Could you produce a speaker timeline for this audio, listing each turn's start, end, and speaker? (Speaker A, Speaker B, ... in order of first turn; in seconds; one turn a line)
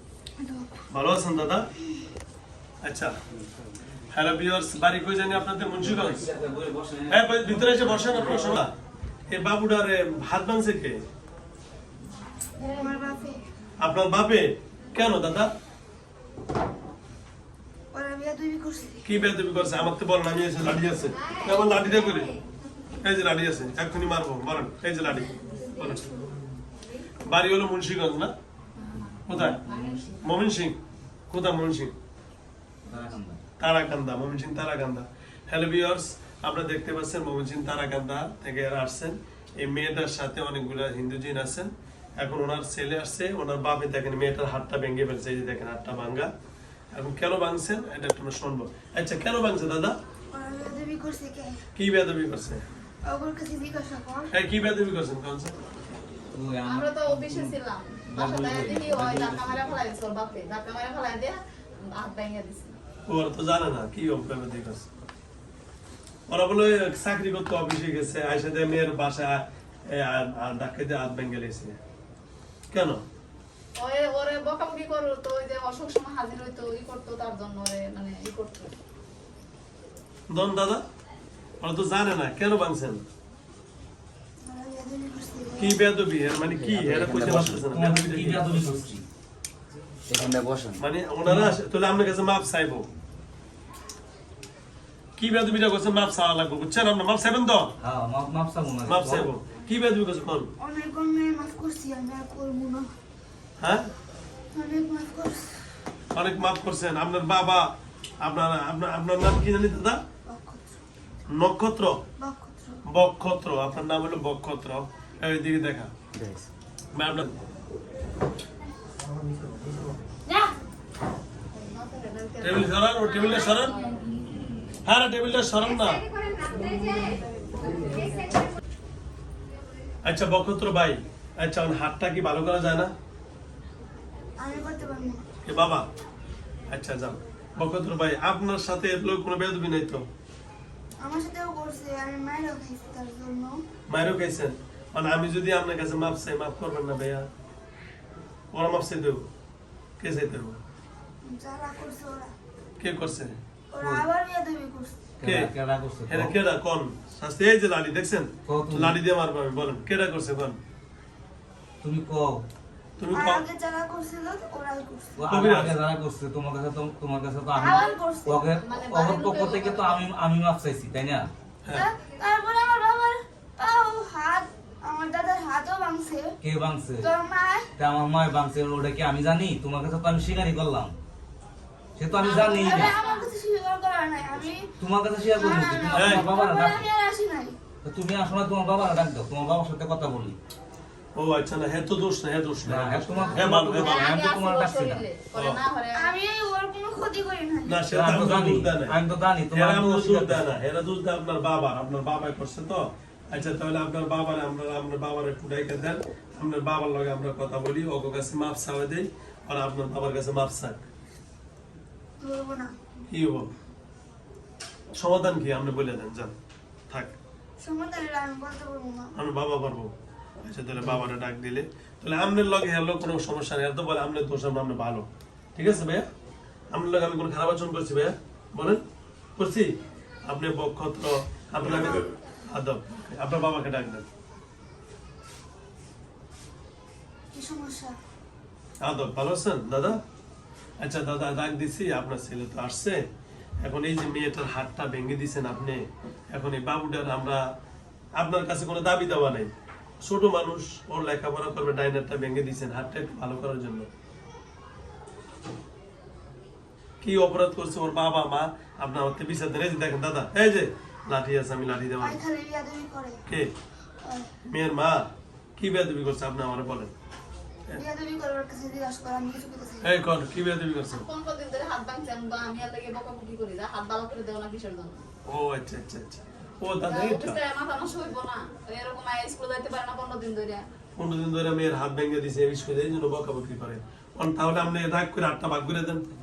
Speaker A: 0.4-0.8
Speaker B: 0.9-1.7
Speaker B: 2.8-3.1
Speaker B: 4.1-6.3
Speaker C: 5.8-8.6
Speaker B: 7.1-8.7
Speaker B: 9.3-11.0
Speaker A: 12.7-13.4
Speaker B: 13.8-15.5
Speaker A: 17.9-19.0
Speaker B: 19.1-22.3
Speaker B: 23.0-26.1
Speaker B: 27.2-28.3
Speaker B: 29.3-29.6
Speaker C: 29.3-30.1
Speaker D: 29.6-30.2
Speaker B: 30.2-30.8
Speaker B: 31.3-31.9
Speaker C: 32.9-33.4
Speaker B: 33.6-46.3
Speaker B: 46.9-50.0
Speaker A: 50.3-51.6
Speaker B: 51.8-52.6
Speaker A: 53.0-54.3
Speaker B: 54.3-55.6
Speaker C: 56.3-57.6
Speaker D: 56.6-62.8
Speaker C: 58.1-59.8
Speaker B: 63.1-64.9
Speaker B: 66.3-71.8
Speaker B: 72.7-73.0
Speaker D: 73.8-78.7
Speaker B: 80.3-80.8
Speaker B: 81.6-83.0
Speaker A: 84.5-85.8
Speaker B: 85.6-88.6
Speaker E: 86.5-87.7
Speaker C: 87.0-89.1
Speaker E: 90.1-90.8
Speaker B: 90.8-92.9
Speaker C: 91.2-91.5
Speaker B: 95.2-97.7
Speaker C: 97.8-99.3
Speaker B: 98.9-100.5
Speaker A: 100.6-102.9
Speaker B: 103.6-103.9
Speaker A: 104.5-105.7
Speaker B: 106.1-107.7
Speaker B: 108.2-110.0
Speaker A: 110.3-110.8
Speaker B: 111.3-112.0
Speaker A: 112.2-112.8
Speaker B: 112.9-115.9
Speaker E: 116.2-116.5
Speaker B: 117.0-117.4
Speaker D: 121.5-124.0
Speaker B: 122.4-123.8
Speaker B: 124.8-126.0
Speaker A: 126.6-128.3
Speaker B: 130.1-132.9
Speaker A: 134.4-135.2
Speaker B: 135.4-135.9
Speaker B: 136.7-140.1
Speaker A: 141.0-143.6
Speaker B: 143.9-147.3
Speaker B: 148.5-149.3
Speaker B: 150.0-150.6
Speaker A: 151.2-152.3
Speaker B: 152.8-153.3
Speaker A: 153.7-155.1
Speaker C: 155.2-156.3
Speaker B: 155.2-155.5
Speaker B: 156.1-160.6
Speaker C: 158.5-159.0
Speaker C: 161.8-162.4
Speaker B: 163.0-163.4
Speaker A: 163.1-165.2
Speaker C: 165.2-171.3
Speaker B: 165.3-165.8
Speaker A: 167.6-168.5
Speaker D: 167.6-168.0
Speaker D: 168.6-170.1
Speaker A: 171.7-176.3
Speaker C: 176.4-177.1
Speaker A: 177.0-177.7
Speaker C: 177.8-181.0
Speaker C: 182.0-182.9
Speaker D: 182.1-183.3
Speaker A: 182.3-184.7
Speaker C: 184.8-186.8
Speaker A: 185.4-187.6
Speaker B: 185.9-186.3
Speaker C: 187.8-190.4
Speaker B: 191.2-194.1
Speaker C: 192.6-195.1
Speaker D: 193.2-196.1
Speaker A: 195.9-197.8
Speaker B: 197.7-199.0
Speaker C: 197.9-200.4
Speaker B: 199.5-210.8
Speaker A: 212.2-212.8
Speaker B: 213.1-213.5
Speaker B: 215.0-216.3
Speaker B: 216.9-217.1
Speaker A: 217.6-219.1
Speaker B: 219.2-219.9
Speaker B: 220.4-226.1
Speaker B: 226.7-228.8
Speaker B: 229.4-229.7
Speaker B: 230.3-234.1
Speaker A: 231.7-232.1
Speaker A: 237.3-238.0
Speaker B: 238.8-240.0
Speaker B: 240.8-243.0
Speaker B: 243.6-247.4
Speaker B: 248.2-253.9
Speaker B: 257.0-262.2
Speaker A: 262.0-263.2
Speaker A: 264.0-264.3
Speaker B: 264.5-266.9
Speaker A: 267.7-269.9
Speaker B: 269.8-271.1
Speaker D: 270.9-275.1
Speaker B: 275.3-277.4
Speaker D: 276.9-280.7
Speaker B: 281.0-286.0